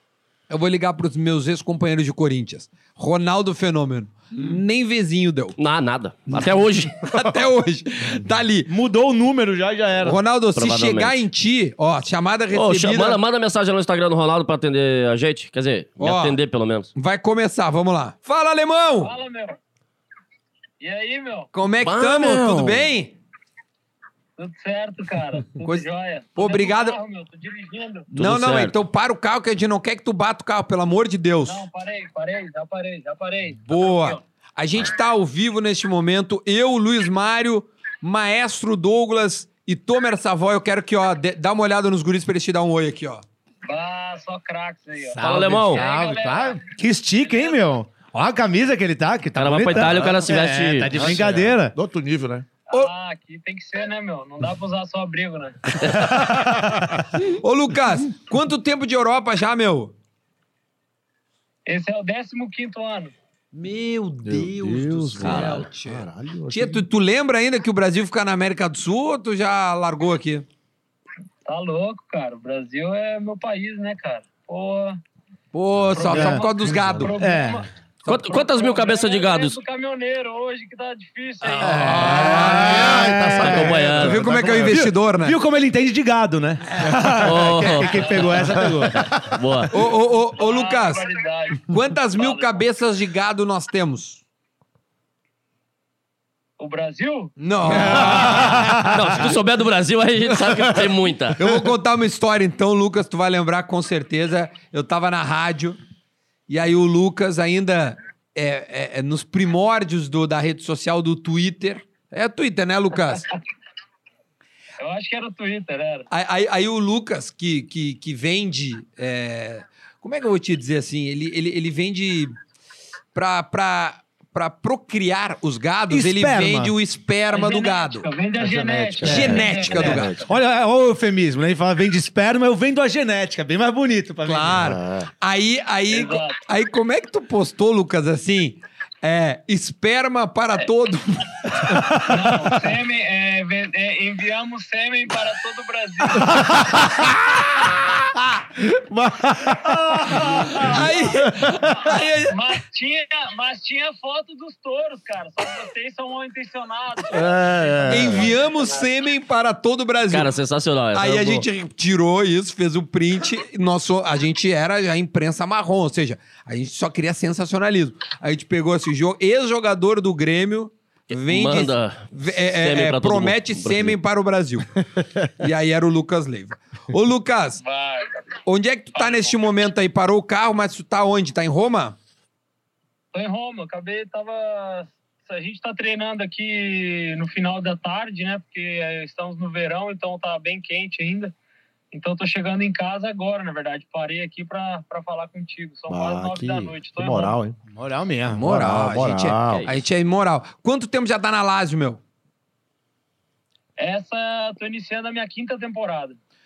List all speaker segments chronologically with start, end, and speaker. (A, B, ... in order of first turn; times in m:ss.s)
0:00.5-0:05.6 A
0:05.6-0:07.0 B
0:06.3-0:08.7 A
0:08.7-0:10.2 C
0:10.0-0:13.2 A
0:10.6-0:11.2 B
0:12.5-0:16.9 B
0:16.0-0:16.4 A
0:16.9-0:19.1 A
0:19.0-0:19.6 D
0:20.8-0:21.5 D
0:21.5-0:23.2 A
0:21.8-0:22.9 B
0:24.4-0:28.1 D
0:25.5-0:25.8 A
0:26.4-0:27.0 A
0:28.1-0:28.7 B
0:28.1-0:31.6 A
0:31.4-0:34.2 D
0:33.6-0:43.2 A
0:43.6-0:46.6 D
0:45.1-0:51.7 C
0:45.2-0:45.8 B
0:49.4-0:51.1 B
0:50.9-0:52.4 E
0:52.7-0:55.6 D
0:57.2-0:59.9 A
1:01.6-1:03.1 D
1:03.5-1:10.4 A
1:04.2-1:06.8 E
1:05.2-1:05.7 B
1:11.4-1:15.0 D
1:15.5-1:17.1 A
1:15.8-1:17.1 E
1:16.0-1:17.6 D
1:16.1-1:16.4 C
1:17.2-1:17.6 C
1:18.0-1:18.5 A
1:18.1-1:19.6 B
1:18.3-1:21.8 D
1:21.4-1:25.4 A
1:21.6-1:24.0 C
1:21.7-1:24.8 E
1:23.4-1:24.2 B
1:24.5-1:29.1 C
1:26.7-1:27.2 A
1:27.2-1:28.3 B
1:28.5-1:29.2 E
1:29.2-1:29.7 B
1:29.7-1:31.0 A
1:30.4-1:32.6 D
1:31.6-1:34.2 A
1:36.6-1:37.3 D
1:37.4-1:38.8 A
1:37.7-1:39.3 E
1:37.9-1:38.2 B
1:38.2-1:38.8 C
1:38.8-1:41.4 B
1:40.4-1:41.7 E
1:41.4-1:45.8 A
1:46.5-1:53.3 A
1:54.8-1:56.0 D
1:56.1-2:02.3 A
2:03.1-2:08.1 A
2:05.9-2:06.7 C
2:07.3-2:10.2 D
2:08.4-2:10.3 E
2:09.0-2:10.2 A
2:09.1-2:14.6 C
2:14.2-2:22.0 A
2:14.5-2:15.1 E
2:15.9-2:16.4 D
2:21.9-2:26.4 D
2:26.4-2:27.1 E
2:26.5-2:27.1 A
2:28.7-2:30.8 E
2:30.1-2:31.6 D
2:30.1-2:32.3 A
2:32.3-2:38.8 D
2:37.1-2:38.3 E
2:37.9-2:40.3 A
2:40.1-2:41.4 B
2:40.9-2:54.8 A
2:51.1-2:54.0 B
2:55.4-2:57.6 A
2:57.6-2:58.2 D
2:58.4-3:02.0 A
2:58.9-2:59.3 D
3:03.1-3:11.3 D
3:11.9-3:17.4 D
3:15.9-3:17.6 E
3:17.7-3:18.6 C
3:18.3-3:22.0 A
3:18.4-3:19.7 E
3:23.8-3:26.2 D